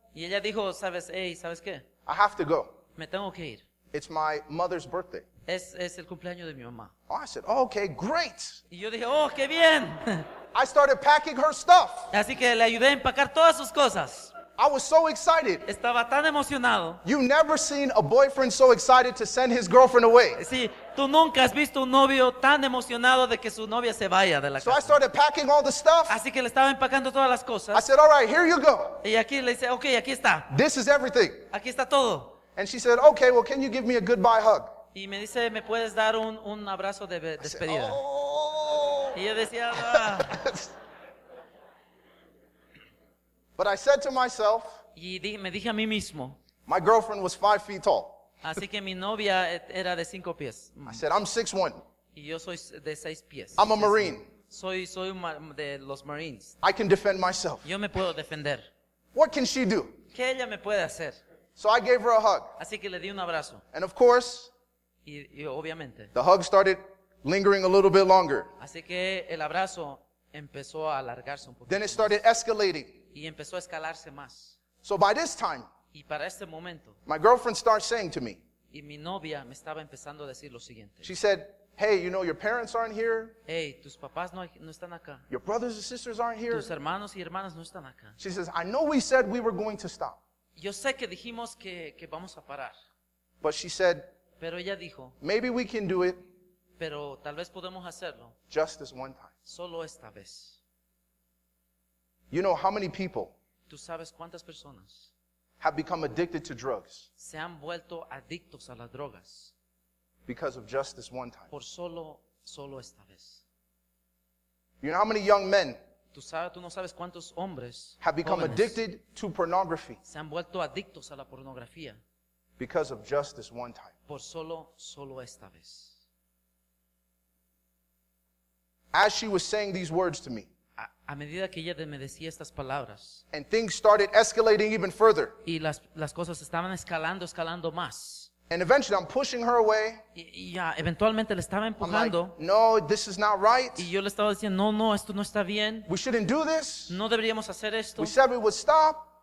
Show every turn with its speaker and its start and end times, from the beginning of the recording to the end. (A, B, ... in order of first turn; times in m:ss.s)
0:00.1-0:01.8 A
0:02.0-0:02.7 B
0:03.0-0:03.6 A
0:03.9-0:05.2 B
0:05.5-0:06.9 A
0:07.1-0:08.6 B
0:08.7-0:10.3 A
0:10.5-0:12.1 B
0:12.1-0:14.3 A
0:14.6-0:15.6 B
0:15.6-0:17.0 A
0:17.0-0:20.4 B
0:20.3-0:25.0 A
0:24.6-0:26.2 B
0:26.1-0:27.8 A
0:27.7-0:29.0 B
0:29.0-0:30.5 A
0:30.5-0:31.5 B
0:31.5-0:32.4 A
0:32.6-0:34.7 B
0:34.9-0:38.0 A
0:37.4-0:39.2 B
0:39.1-0:40.4 A
0:39.7-0:40.7 B
0:43.6-0:44.8 B
0:44.9-0:46.4 A
0:46.7-0:48.3 B
0:48.4-0:51.0 A
0:50.9-0:51.8 B
0:52.1-0:56.5 A
0:53.6-0:54.3 B
0:56.6-0:57.6 B
0:57.6-0:58.7 A
0:59.1-1:00.0 B
1:00.1-1:01.2 A
1:01.6-1:02.5 B
1:02.6-1:03.6 A
1:03.7-1:04.5 B
1:05.0-1:06.1 A
1:06.1-1:08.5 B
1:08.6-1:12.2 A
1:11.7-1:13.0 B
1:13.1-1:14.6 A
1:14.8-1:15.7 B
1:15.9-1:17.0 A
1:17.1-1:18.4 B
1:18.7-1:21.1 A
1:21.0-1:23.4 B
1:23.5-1:25.2 A
1:25.3-1:26.7 B
1:26.5-1:28.2 A
1:28.2-1:30.2 B
1:30.6-1:32.7 A
1:33.4-1:34.1 B
1:34.4-1:35.1 A
1:35.2-1:36.2 B
1:36.8-1:38.3 A
1:38.5-1:39.3 B
1:39.5-1:40.6 A
1:42.3-1:43.3 B
1:43.7-1:45.1 A
1:45.6-1:47.0 B
1:47.2-1:49.5 A
1:50.3-1:51.5 B
1:51.5-1:53.4 A
1:54.8-1:55.8 B
1:56.1-1:58.8 A
1:58.0-2:00.0 B
2:00.0-2:02.0 A
2:02.6-2:03.9 B
2:04.1-2:06.0 A
2:08.9-2:10.5 B
2:10.8-2:13.2 A
2:13.3-2:15.4 B
2:15.4-2:18.3 A
2:18.5-2:20.0 B
2:20.1-2:22.3 A
2:21.8-2:23.9 B
2:23.8-2:25.9 A
2:25.9-2:27.0 B
2:26.9-2:28.1 A
2:28.0-2:29.0 B